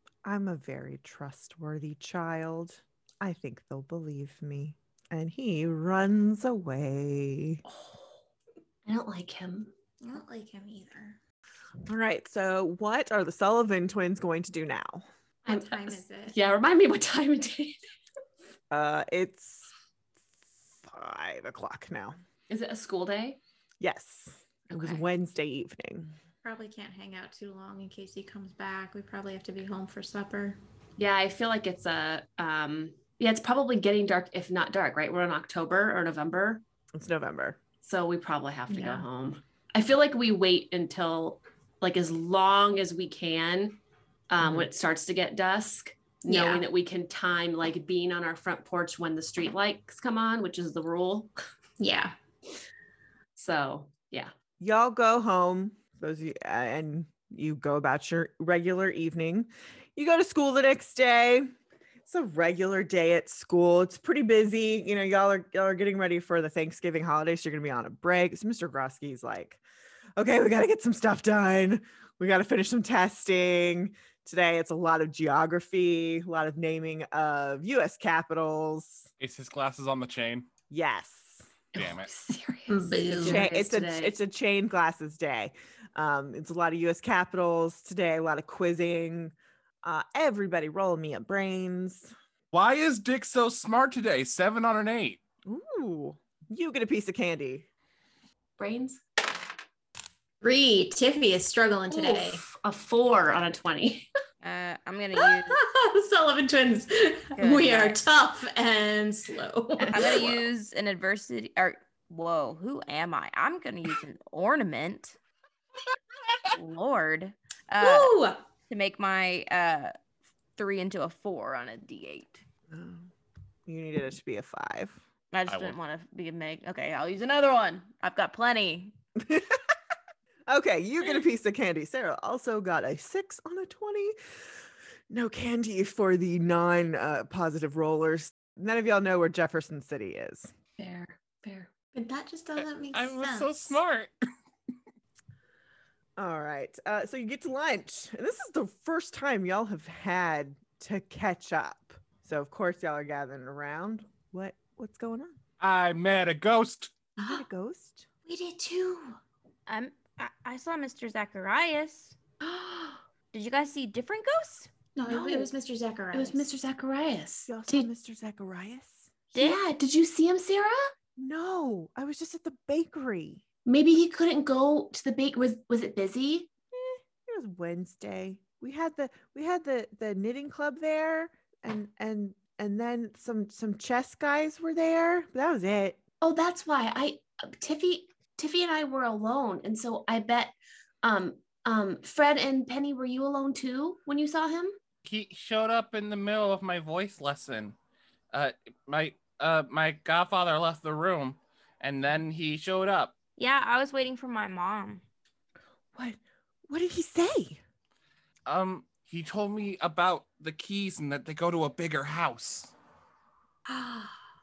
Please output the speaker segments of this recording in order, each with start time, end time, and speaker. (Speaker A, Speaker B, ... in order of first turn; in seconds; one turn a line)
Speaker A: 0.2-7.6
Speaker B: 8.9-9.7
Speaker C: 10.0-11.2
Speaker A: 11.9-15.1
Speaker C: 15.5-16.4
Speaker B: 15.5-17.8
Speaker A: 18.7-19.7
Speaker A: 20.8-22.2
Speaker B: 22.5-23.4
Speaker A: 23.8-26.1
Speaker B: 24.7-25.0
Speaker C: 26.4-30.6
Speaker B: 31.0-36.6
Speaker A: 37.0-37.6
Speaker B: 37.8-51.3
Speaker C: 38.7-39.1
Speaker A: 44.4-44.7
Speaker C: 46.3-46.6
Speaker C: 51.8-52.2
Speaker B: 53.4-54.3
Speaker A: 54.6-61.5
Speaker A: 62.1-69.6
Speaker A: 70.2-79.1
Speaker D: 79.2-80.5
Speaker A: 80.7-81.5
Speaker B: 81.8-84.2
Speaker D: 81.8-82.1
Speaker C: 82.7-83.4
Speaker A: 83.2-92.1
Speaker D: 92.5-95.2
Speaker A: 95.5-97.7
Speaker B: 98.6-99.0
Speaker C: 100.4-102.4
Speaker B: 101.9-104.1
Speaker E: 104.4-105.6
Speaker C: 105.2-110.3
Speaker E: 107.3-108.0
Speaker B: 109.8-110.3
Speaker E: 109.9-115.2
Speaker E: 116.5-118.2
Speaker C: 117.8-118.4
Speaker E: 118.7-120.0
Speaker E: 120.6-122.4
Speaker A: 122.7-123.1
Speaker A: 123.7-125.0
Speaker E: 125.3-128.9
Speaker D: 125.5-125.8
Speaker A: 129.2-129.6
Speaker A: 130.5-134.2
Speaker A: 135.1-140.5
Speaker B: 140.8-141.7
Speaker C: 141.9-143.8
Speaker D: 142.6-144.1
Speaker A: 146.2-155.4
Speaker D: 155.6-156.9
Speaker C: 157.2-157.4
Speaker A: 157.2-158.1
Speaker C: 158.3-159.2
Speaker E: 159.7-162.2
Speaker E: 163.3-164.7
Speaker C: 164.9-166.5
Speaker B: 165.1-165.5
Speaker B: 166.1-167.9
Speaker A: 167.5-169.1
Speaker E: 169.3-169.6
Speaker B: 169.3-170.9
Speaker A: 171.2-173.4
Speaker B: 173.7-176.5
Speaker A: 176.7-186.0
Speaker B: 186.2-194.8
Speaker D: 195.1-197.8
Speaker D: 198.3-203.2
Speaker E: 203.4-205.0
Speaker A: 205.9-207.6
Speaker D: 208.5-212.7
Speaker C: 213.7-214.2